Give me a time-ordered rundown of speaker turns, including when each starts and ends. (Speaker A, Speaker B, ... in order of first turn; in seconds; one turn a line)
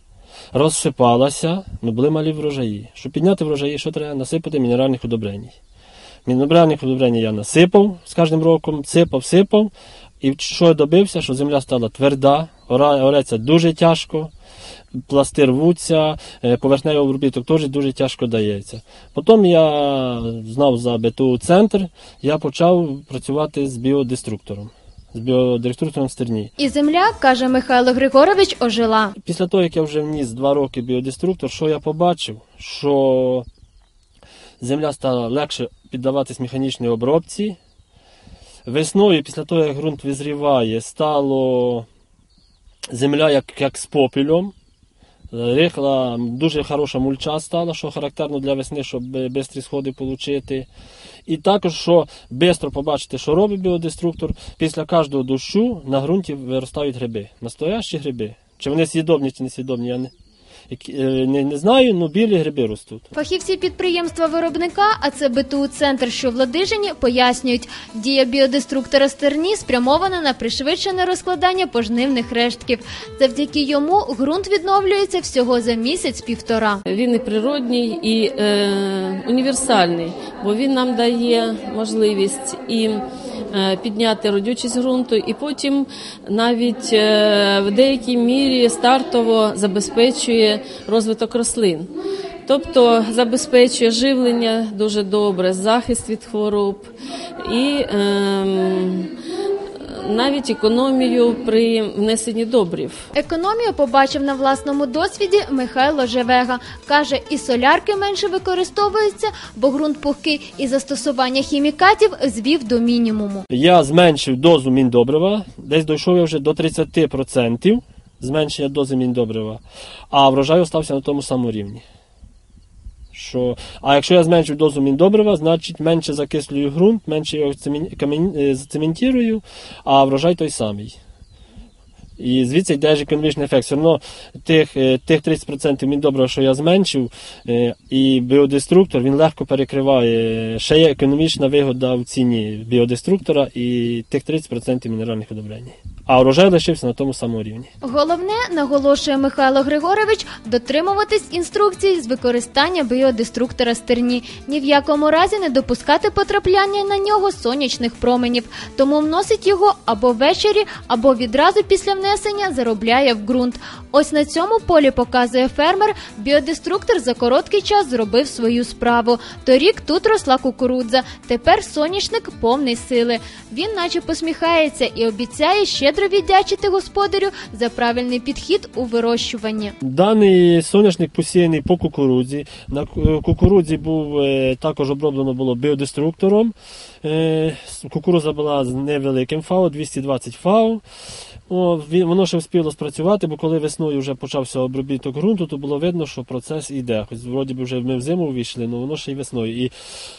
Speaker A: 0.5-5.5
Speaker A: 6.2-14.3
Speaker A: 15.1-26.5
Speaker B: 26.6-29.1
Speaker A: 29.2-33.5
Speaker A: 34.6-37.6
Speaker A: 38.6-41.9
Speaker A: 42.9-44.5
Speaker A: 45.3-50.7
Speaker A: 51.2-60.1
Speaker A: 60.7-63.1
Speaker B: 63.1-76.8
Speaker C: 76.9-91.9
Speaker C: 92.5-96.9
Speaker C: 97.4-99.1
Speaker C: 99.8-103.1
Speaker B: 103.1-113.5
Speaker A: 113.5-121.8
Speaker A: 123.1-131.0
Speaker A: 132.2-147.7
Speaker B: 147.8-179.7
Speaker A: 179.8-190.8
Speaker A: 191.5-199.7